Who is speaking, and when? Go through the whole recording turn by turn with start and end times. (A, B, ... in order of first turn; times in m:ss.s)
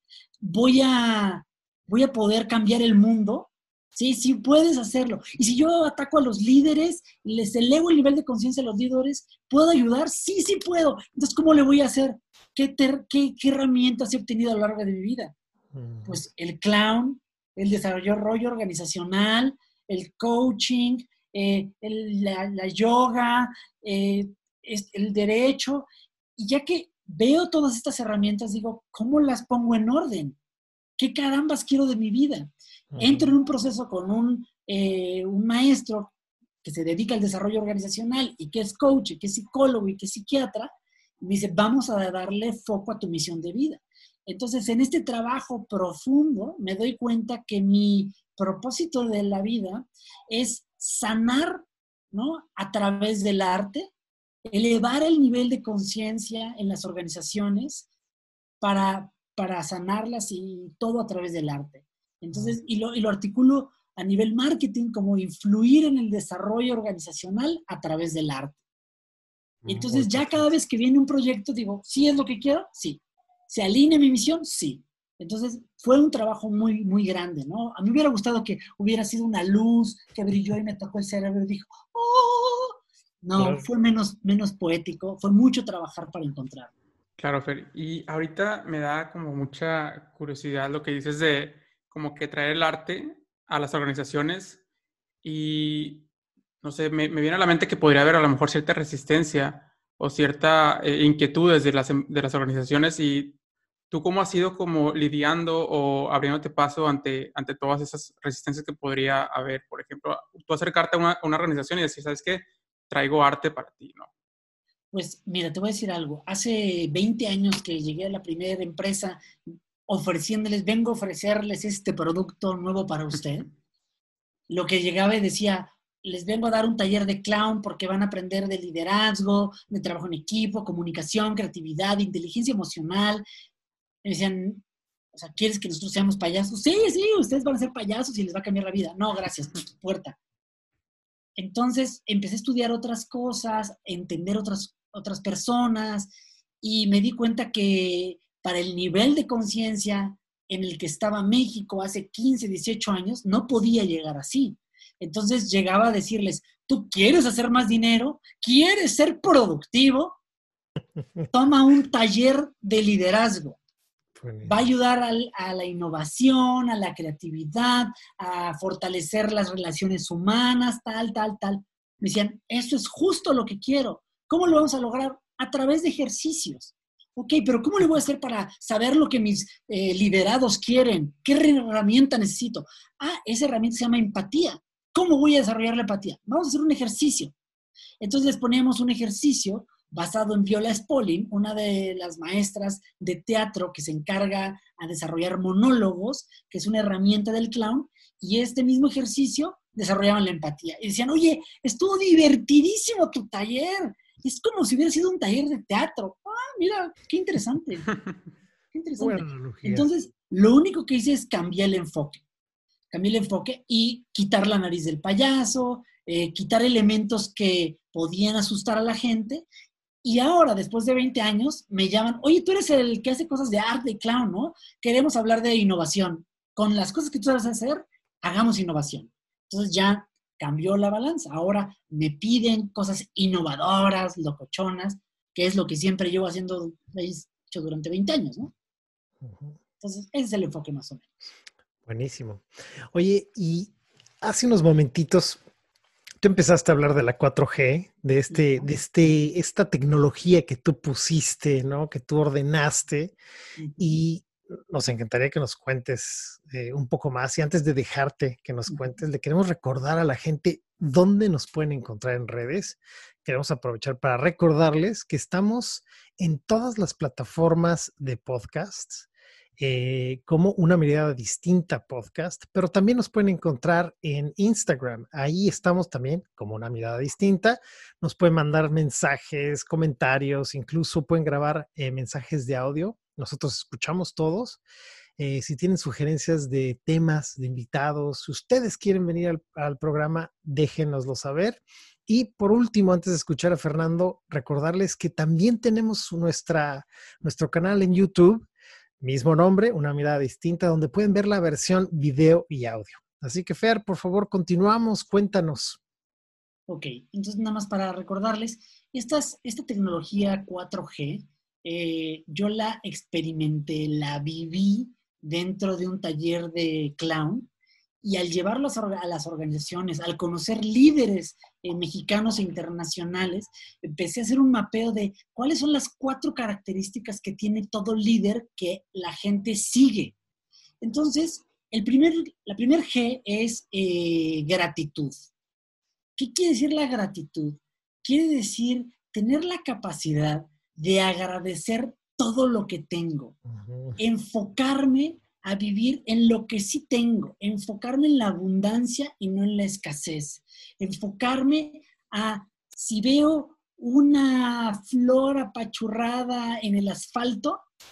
0:00.4-0:15.4 A
0:15.7-0:16.2 B
0:16.1-0:30.4 A
0:31.0-0:36.1 A
0:32.9-0:33.3 B
0:36.6-0:53.9 A
0:54.5-0:57.9 A
0:58.6-1:08.6 A
1:02.3-1:02.6 B
1:09.6-1:10.5 B
1:09.7-1:26.7 A
1:23.4-1:23.6 B
1:27.2-1:34.6 C
1:35.2-1:36.1 C
1:36.6-1:43.4 C
1:43.9-1:54.1 C
1:54.9-1:59.2 A
1:59.9-2:03.5 A
2:04.5-2:13.2 A
2:14.0-2:20.2 A
2:21.4-2:26.1 A
2:26.6-2:40.2 A
2:41.3-2:43.6 A
2:44.2-2:44.7 B
2:44.4-3:07.4 A
3:08.0-3:27.9 A
3:28.7-3:32.2 A
3:29.0-3:29.9 B
3:32.9-3:39.5 A
3:40.0-3:58.5 A
3:59.2-3:59.6 B
3:59.8-4:01.3 A
4:01.9-4:05.4 B
4:06.2-4:13.2 B
4:08.3-4:08.7 A
4:13.6-4:14.0 A
4:13.8-4:44.6 B
4:18.7-4:19.0 A
4:45.2-4:58.5 B
4:59.0-5:05.8 B
5:06.7-5:17.5 A
5:18.0-5:30.2 A
5:30.8-5:35.3 A
5:36.2-5:43.4 A
5:43.5-5:44.0 B
5:44.0-5:57.6 A